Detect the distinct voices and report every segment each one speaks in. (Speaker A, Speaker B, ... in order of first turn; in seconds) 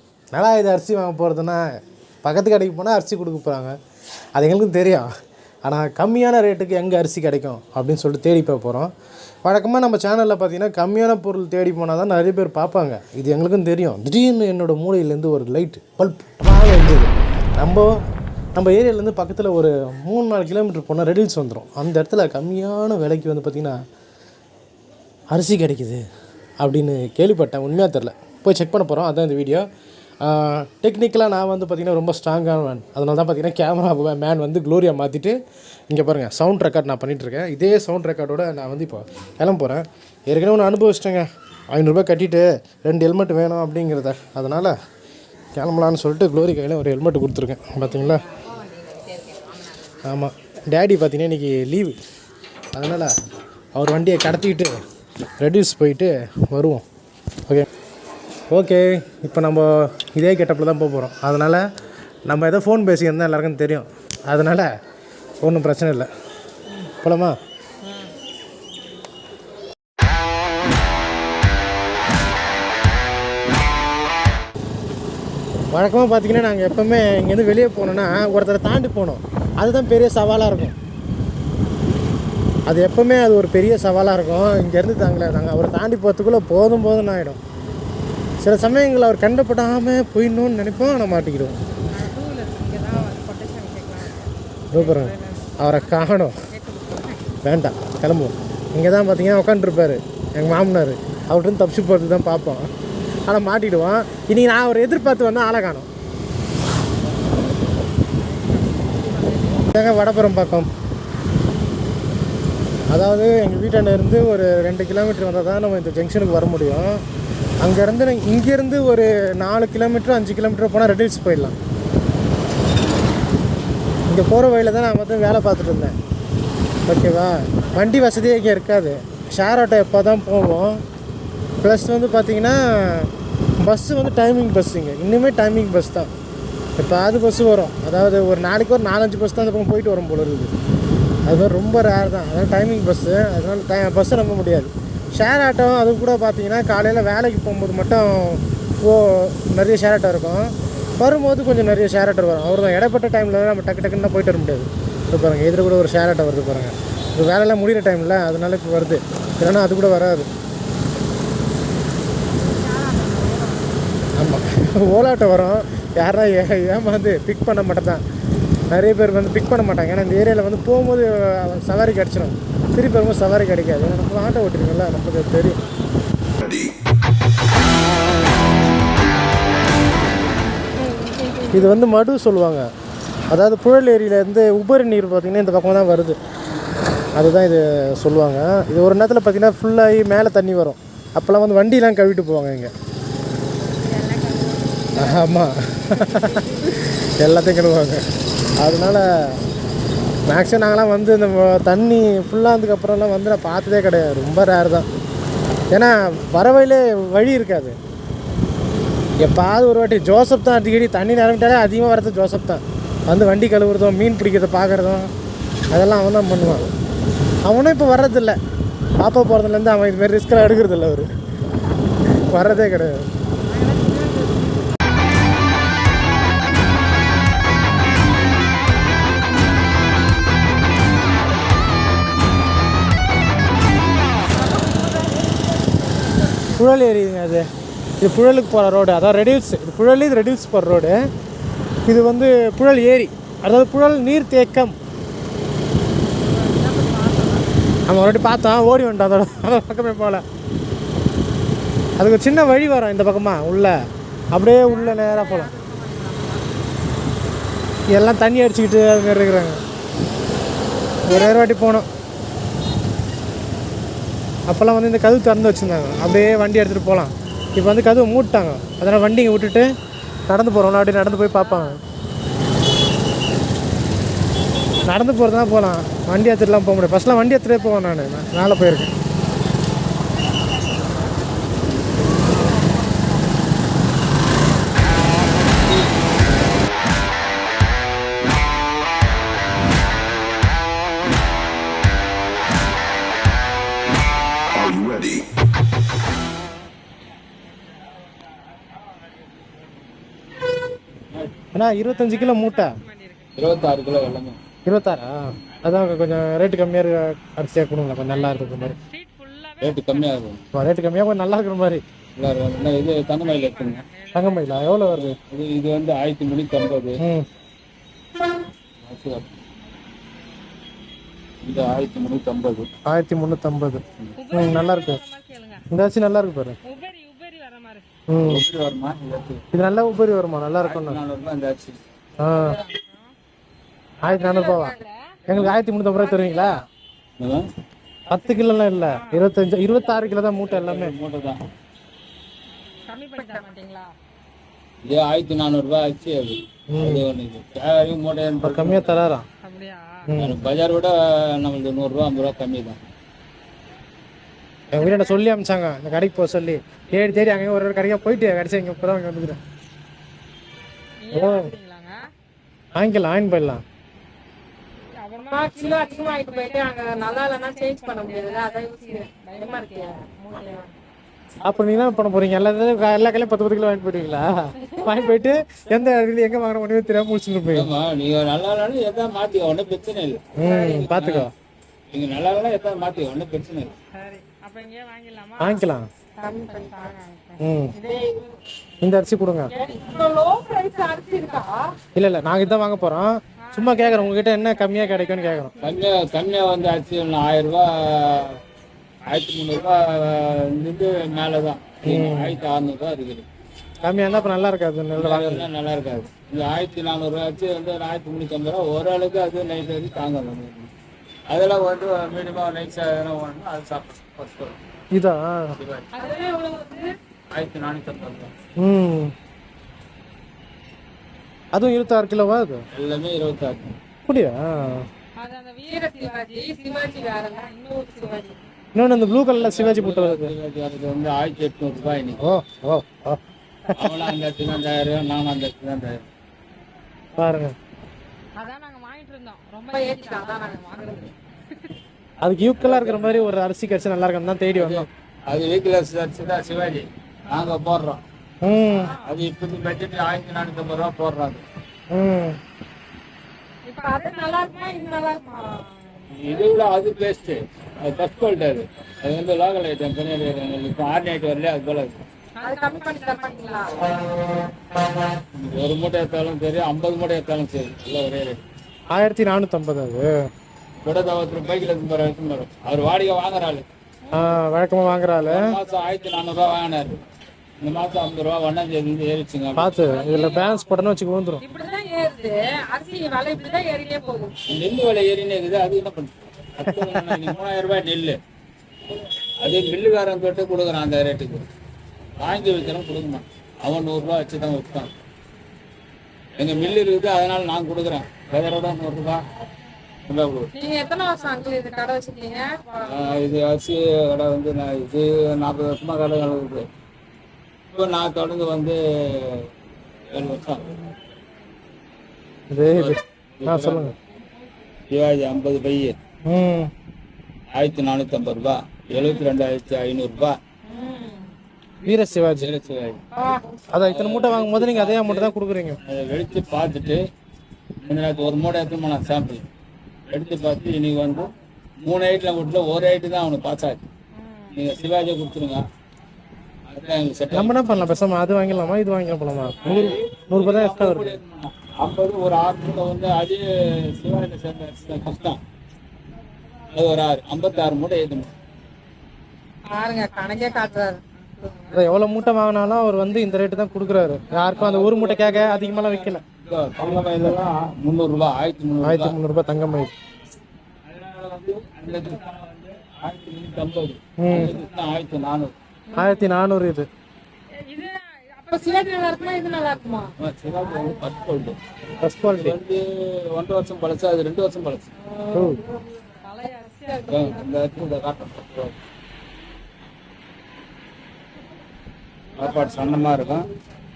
Speaker A: 0.3-1.6, 2.2-3.7, 4.4-5.1, 5.6-8.9, 9.4-17.9, 18.6-23.8, 25.3-26.0, 26.6-29.7, 30.2-35.4, 35.9-44.7, 45.5-48.2, 50.0-52.0, 52.7-53.1, 53.7-54.7, 55.4-56.8, 58.5-61.6, 62.3-64.7, 65.4-66.1, 67.0-67.3, 75.7-80.7, 82.7-87.4, 88.4-91.6, 94.7-96.3, 97.4-102.7, 103.2-105.9, 109.7-110.7, 112.9-117.0, 117.6-121.5, 124.1-125.9, 126.8-130.8, 131.6-136.1, 136.8-140.5, 141.3-160.3, 164.2-168.0, 168.7-175.6, 181.5-182.7, 183.3-186.2, 187.2-192.7, 194.9-198.0, 198.6-199.4, 200.3-204.9, 205.7-207.8, 209.2-215.1, 215.7-216.7, 217.4-218.4, 219.0-221.1, 222.2-223.1, 236.6-237.4, 238.0-241.0, 241.8-244.8, 247.9-250.2, 252.0-253.7, 254.3-255.5, 257.9-259.6, 261.0-261.9, 264.5-269.7, 270.3-271.8, 274.8-278.9, 301.5-302.7, 304.6-308.8, 310.5-311.8, 314.1-315.2, 317.0-317.2, 322.9-325.0, 325.7-326.6, 328.1-328.4, 329.5-331.0, 332.2-332.6, 334.0-334.7, 335.3-336.6, 338.1-340.9, 346.7-347.1, 348.4-349.2, 350.1-350.4, 354.7-359.4, 361.1-361.5, 362.7-363.6, 371.4-377.7, 380.4-381.3, 385.4-385.9, 387.4-387.7, 388.8-389.5, 391.9-395.5, 401.8-402.4, 403.8-405.5, 414.9-415.5, 418.6-419.1, 421.5-422.6, 424.1-424.8, 428.7-430.3, 432.2-434.0, 437.2-437.5, 442.2-444.9, 448.4-448.9, 451.9-452.4, 468.9-470.1, 474.1-475.6, 479.5-481.4, 512.5-513.9, 516.3-516.7, 521.8-522.5, 523.7-525.8, 537.3-541.2, 551.7-556.2, 558.8-559.9, 564.2-564.6, 565.9-566.9, 572.0-572.5, 575.3-575.6
Speaker B: 47.8-50.0, 67.8-68.1, 91.9-97.3, 108.1-109.7, 162.3-163.7, 180.8-181.7, 193.6-195.3, 196.0-196.8, 223.4-224.5, 234.3-235.2, 246.2-247.6, 254.6-256.6, 271.1-271.8, 301.9-303.5, 308.1-310.1, 313.2-314.8, 324.2-325.6, 326.6-327.8, 332.4-333.1, 334.0-335.1, 335.9-336.5, 338.8-339.3, 342.9-343.9, 349.4-350.1, 354.8-355.1, 361.0-362.0, 365.0-370.7, 374.6-375.1, 383.9-388.3, 389.5-391.7, 393.4-395.8, 415.9-416.9, 425.2-428.4, 438.4-441.7, 448.7-449.1, 453.6-455.9, 462.4-464.0, 474.1-474.3, 479.8-480.6, 481.4-484.3, 500.5-503.1, 520.6-521.3, 523.1-523.6, 534.1-534.5, 549.6-551.8, 565.9-566.2, 567.6-570.1, 575.0-575.6, 576.2-577.5
Speaker C: 298.1-299.3, 301.1-301.4, 303.3-304.4, 309.6-310.4, 312.1-313.8, 314.9-317.0, 318.8-319.4, 321.4-322.7, 328.2-329.4, 330.6-331.8, 337.2-337.5, 340.3-341.4, 344.8-349.1, 350.2-352.8, 377.5-381.3, 381.9-383.7, 395.6-398.4, 399.0-403.2, 404.9-410.7, 411.3-414.6, 415.6-415.9, 417.3-418.3, 422.7-423.7, 429.4-432.3, 433.7-436.0, 442.6-443.3, 444.5-448.0, 448.9-451.4, 456.1-462.0, 465.3-468.4, 470.8-473.6, 475.2-477.0, 477.6-480.0, 484.4-488.2, 489.4-491.4, 492.2-494.9, 496.4-499.2, 500.0-500.5, 502.8-506.7, 507.7-509.5, 510.1-510.7, 512.7-514.0, 514.9-516.0, 517.5-520.4, 522.4-523.0, 523.8-527.0, 527.8-529.5, 530.1-531.3, 531.8-533.8, 534.5-535.6, 536.7-537.8, 539.6-545.4, 546.7-548.3, 554.5-559.1, 560.9-565.5, 570.2-571.6, 572.3-574.9, 577.1-578.8, 582.4-583.4